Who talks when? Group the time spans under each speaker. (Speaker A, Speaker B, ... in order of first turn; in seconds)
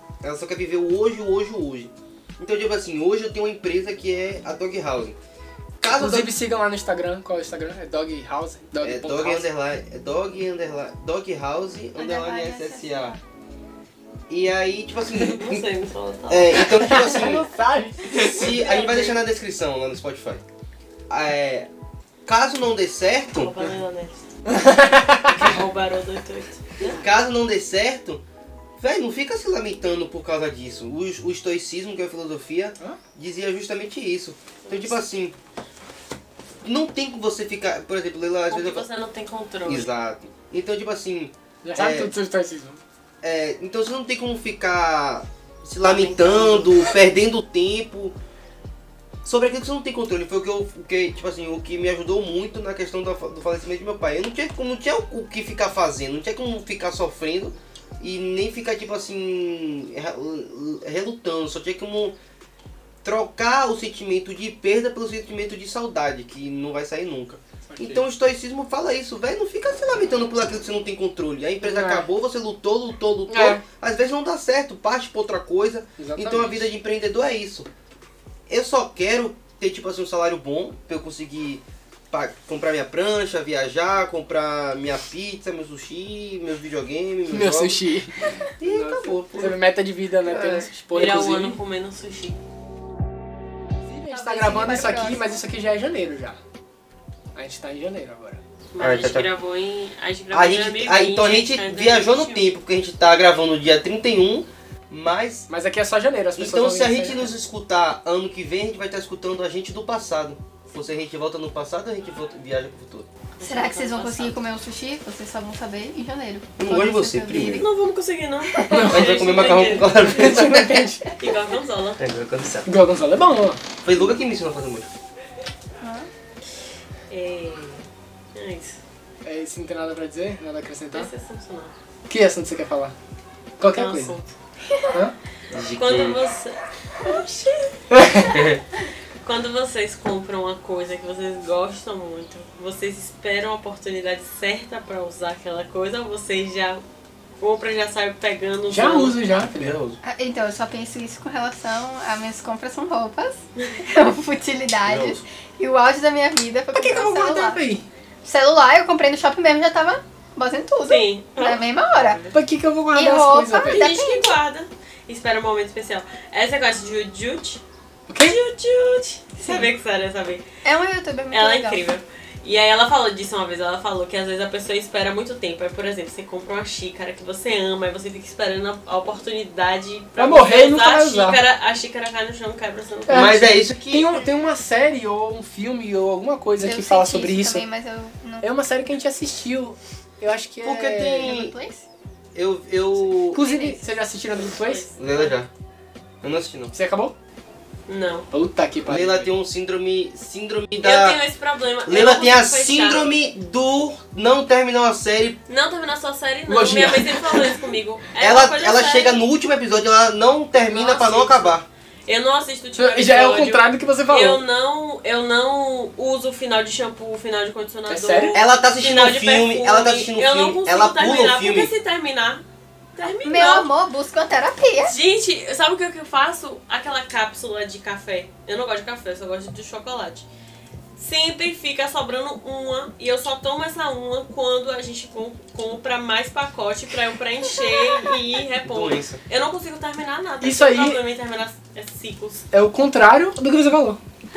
Speaker A: 0.2-5.2, 5.8-6.3, 8.8-13.2, 14.3-15.7, 16.3-17.5, 18.1-20.4, 21.1-21.7, 22.2-23.6, 27.0-28.2, 28.8-35.4, 36.6-38.9, 39.6-42.1, 43.2-48.2, 49.2-62.1, 63.0-77.7, 78.5-87.8, 88.6-89.6, 90.2-90.7, 98.8-99.3, 100.3-105.5, 106.3-113.1, 116.6-117.6, 118.8-120.9, 122.0-122.7, 123.8-124.9, 135.5-136.2, 138.1-138.6, 149.5-150.0, 154.8-155.2, 183.1-184.2, 190.6-191.5, 192.3-193.4, 195.0-195.5, 196.2-196.7, 198.8-201.2, 201.8-205.4, 208.2-211.7, 218.3-221.7, 238.6-239.2
Speaker B: 5.8-9.5, 16.6-18.3, 24.5-25.3, 41.6-42.8, 67.7-68.0, 71.6-72.1, 73.3-73.6, 76.0-76.7, 87.3-91.6, 93.8-96.4, 97.3-98.4, 105.5-107.3, 120.1-121.1, 122.6-123.6, 129.2-131.1, 132.1-132.9, 133.6-134.2, 148.7-149.8, 156.7-157.8, 162.3-163.9, 168.1-168.4, 180.2-181.4, 183.1-187.7, 188.4-191.2, 193.3-194.8, 196.7-197.1, 198.3-199.3, 206.5-207.6, 212.7-214.4, 217.9-218.4, 240.4-241.0, 242.5-244.0
Speaker C: 11.9-13.2, 94.1-95.4, 113.4-117.7, 125.8-126.1, 134.7-135.0, 150.0-157.6, 158.2-162.2, 162.9-164.4, 170.6-171.8, 186.6-188.5, 191.0-191.8, 193.3-194.0, 223.2-225.0
Speaker D: 15.3-16.7, 18.1-19.2, 23.3-24.2, 25.2-27.0, 34.6-35.0, 38.5-39.9, 45.8-46.7, 90.9-92.4, 98.7-102.5, 113.4-114.4, 117.5-120.4, 121.2-122.0, 127.1-128.8, 130.9-131.7, 133.7-134.3, 135.8-137.8, 139.2-146.8, 147.4-149.2, 160.8-162.3, 163.6-167.6, 168.2-170.4, 171.3-183.3, 194.3-195.4, 197.9-198.3, 200.8-203.1, 205.5-209.2, 210.6-222.4, 222.9-223.7, 224.8-230.3, 230.9-242.4